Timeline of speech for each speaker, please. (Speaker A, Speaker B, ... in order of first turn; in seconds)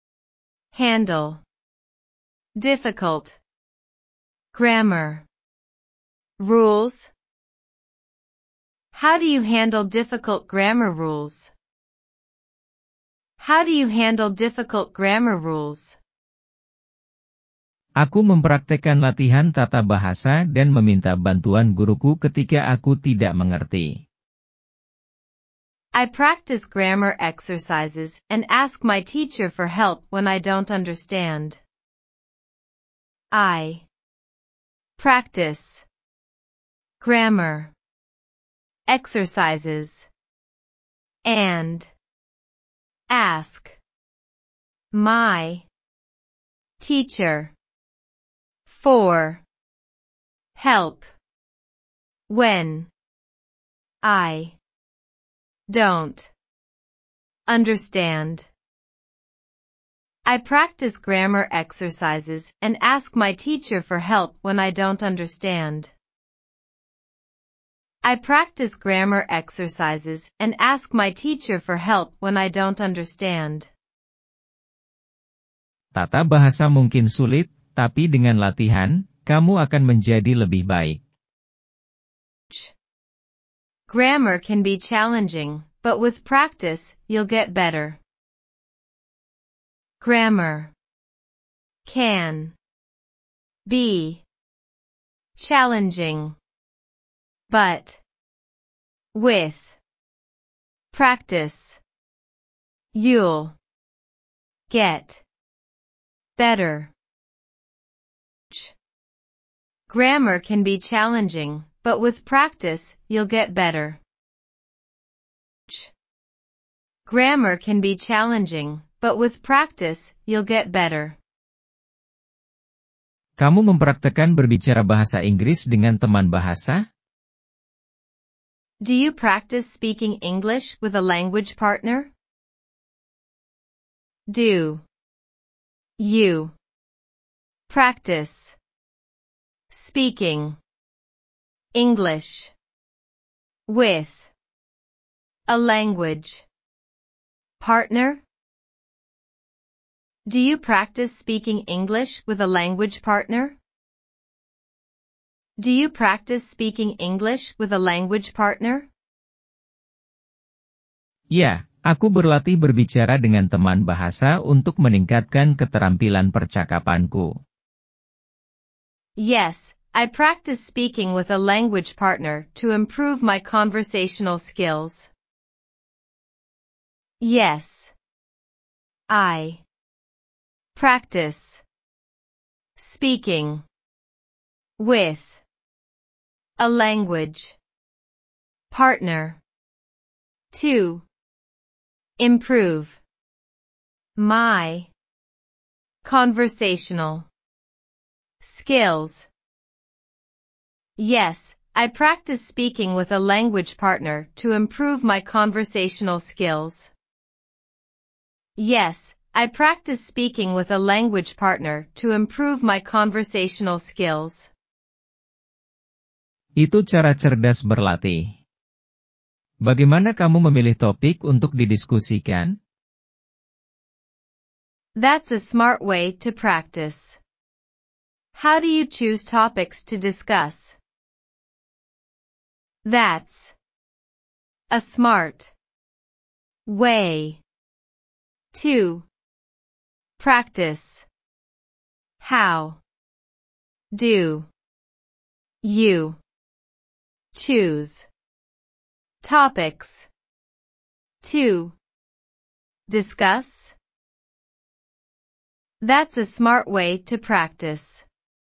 Speaker A: 0.7-1.4, 2.6-3.4, 4.5-5.3, 6.4-7.1, 8.9-11.5, 13.4-16.0, 25.9-31.6, 33.3-33.9, 35.0-35.9, 37.0-37.7, 38.9-40.1, 41.2-41.9, 43.1-43.8, 44.9-45.7, 46.8-47.5, 48.7-49.4, 50.6-51.1, 52.3-52.9, 54.0-54.6, 55.7-56.3, 57.5-58.5, 60.2-65.9, 68.0-73.7, 83.9-88.0, 90.0-90.7, 91.9-92.5, 93.7-94.2, 95.4-96.4, 97.5-98.0, 99.1-99.8, 100.9-101.8, 102.9-103.6, 104.7-105.2, 106.4-106.9, 109.9-114.0, 117.1-121.2, 128.8-132.1, 134.3-134.8, 136.0-136.6, 137.7-138.6, 139.7-140.6, 141.7-142.5, 143.7-144.3, 145.5-146.5, 147.6-148.2, 150.3-153.6, 155.6-158.9, 169.2-175.1, 177.2-177.9, 179.1-179.6, 180.8-181.6, 182.8-183.7, 184.8-185.4, 186.6-187.6, 188.7-189.4, 190.5-191.1, 192.2-193.0, 194.2-194.9, 196.0-197.3, 198.4-199.3, 201.0-206.9, 208.6-214.5, 225.0-227.2, 228.3-230.8, 232.8-233.6, 234.7-235.5, 236.7-237.4, 238.5-239.1, 240.2-241.1, 242.2-242.8, 243.9-244.5, 245.6-246.2, 247.3-248.1, 249.2-250.1, 251.2-251.8, 252.9-253.8, 255.8-258.1
Speaker B: 18.0-24.0, 76.0-81.0, 123.4-126.8, 161.3-167.3, 216.6-218.4, 219.7-222.5